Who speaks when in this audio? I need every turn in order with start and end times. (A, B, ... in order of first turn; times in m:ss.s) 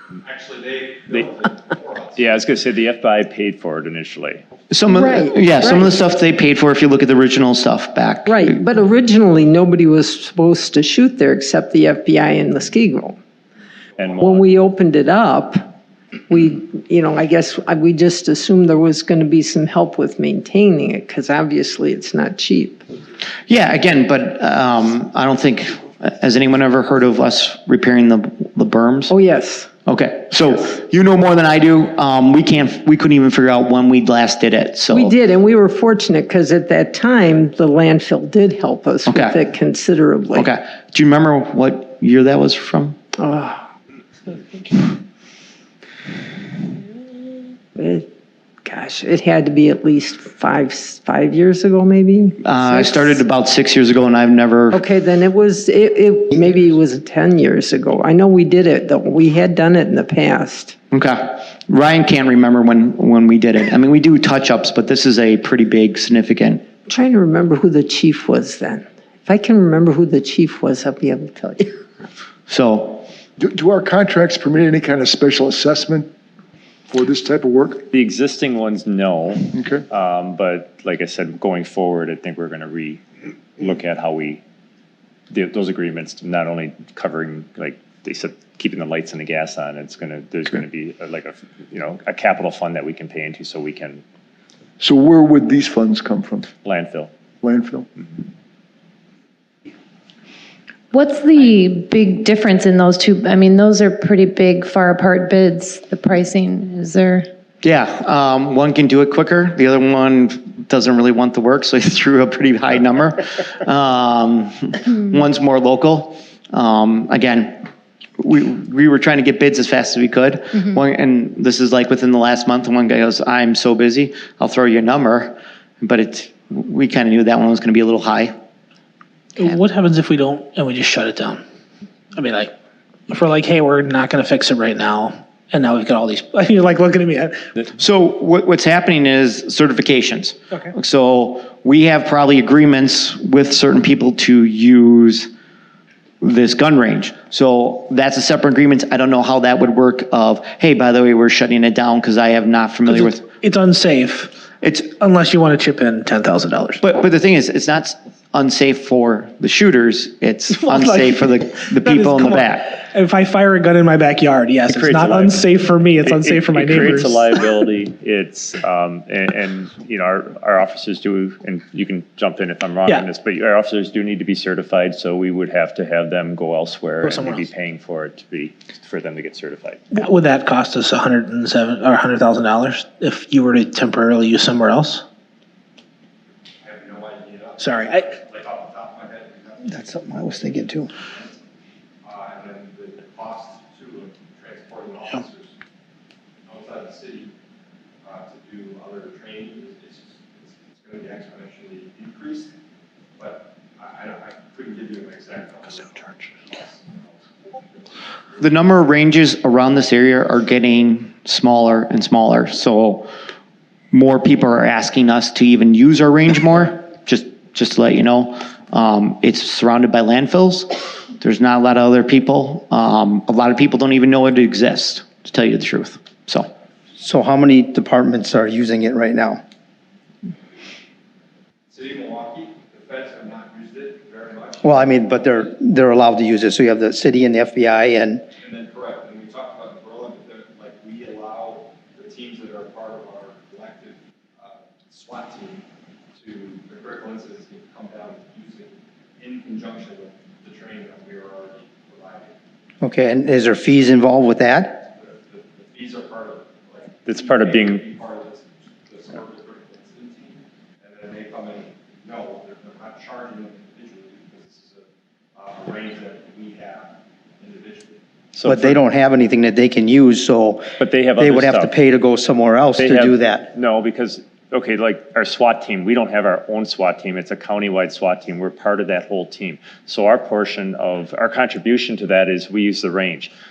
0:00.2-0:02.2 A
0:02.2-0:04.4 B
0:04.7-0:08.6 C
0:04.9-0:06.0 D
0:08.2-0:13.2 D
0:14.0-0:14.5 B
0:14.2-0:15.8 D
0:16.3-0:22.9 D
0:23.5-0:29.1 C
0:29.1-0:29.8 D
0:29.8-0:35.2 C
0:34.9-0:40.5 D
0:39.0-0:39.4 C
0:40.3-0:43.0 C
0:43.2-0:43.6 D
0:47.8-0:48.1 D
0:48.6-0:53.2 D
0:52.4-0:54.8 C
0:54.7-1:00.8 D
1:00.9-1:06.7 C
1:06.8-1:11.8 D
1:12.5-1:13.1 C
1:13.4-1:16.1 E
1:16.9-1:17.9 E
1:17.9-1:23.0 B
1:19.5-1:19.8 E
1:23.6-1:24.4 B
1:25.3-1:34.0 B
1:34.8-1:36.5 E
1:36.6-1:37.1 B
1:37.4-1:37.9 E
1:40.9-1:47.3 F
1:47.6-1:57.6 C
1:58.2-2:08.3 C
2:09.4-2:11.4 G
2:12.2-2:12.5 G
2:13.1-2:17.4 G
2:17.8-2:25.3 C
2:26.2-2:33.2 C
2:32.9-2:34.4 G
2:34.6-2:34.9 C
2:35.0-2:36.8 G
2:36.8-2:42.8 C
2:40.5-2:47.3 G
2:44.7-2:45.4 B
2:46.0-3:00.0 B
2:57.0-2:57.5 G
2:59.9-3:05.0 G
3:06.6-3:10.5 A
3:07.6-3:08.1 G
3:09.6-3:10.9 H
3:11.0-3:11.4 A
3:12.0-3:15.5 A
3:16.5-3:17.3 A
3:18.0-3:22.5 A
3:23.2-3:27.1 A
3:28.4-3:33.1 C
3:33.9-3:46.5 C
3:47.0-3:49.4 H
3:51.7-3:54.8 A
3:54.6-3:58.2 H
3:58.4-4:05.6 A
4:06.2-4:12.3 A
4:12.8-4:14.9 H
4:15.0-4:28.0 A
4:17.1-4:17.8 B
4:28.3-4:28.8 B
4:28.4-4:33.5 H
4:30.8-4:31.8 B
4:32.8-4:43.3 B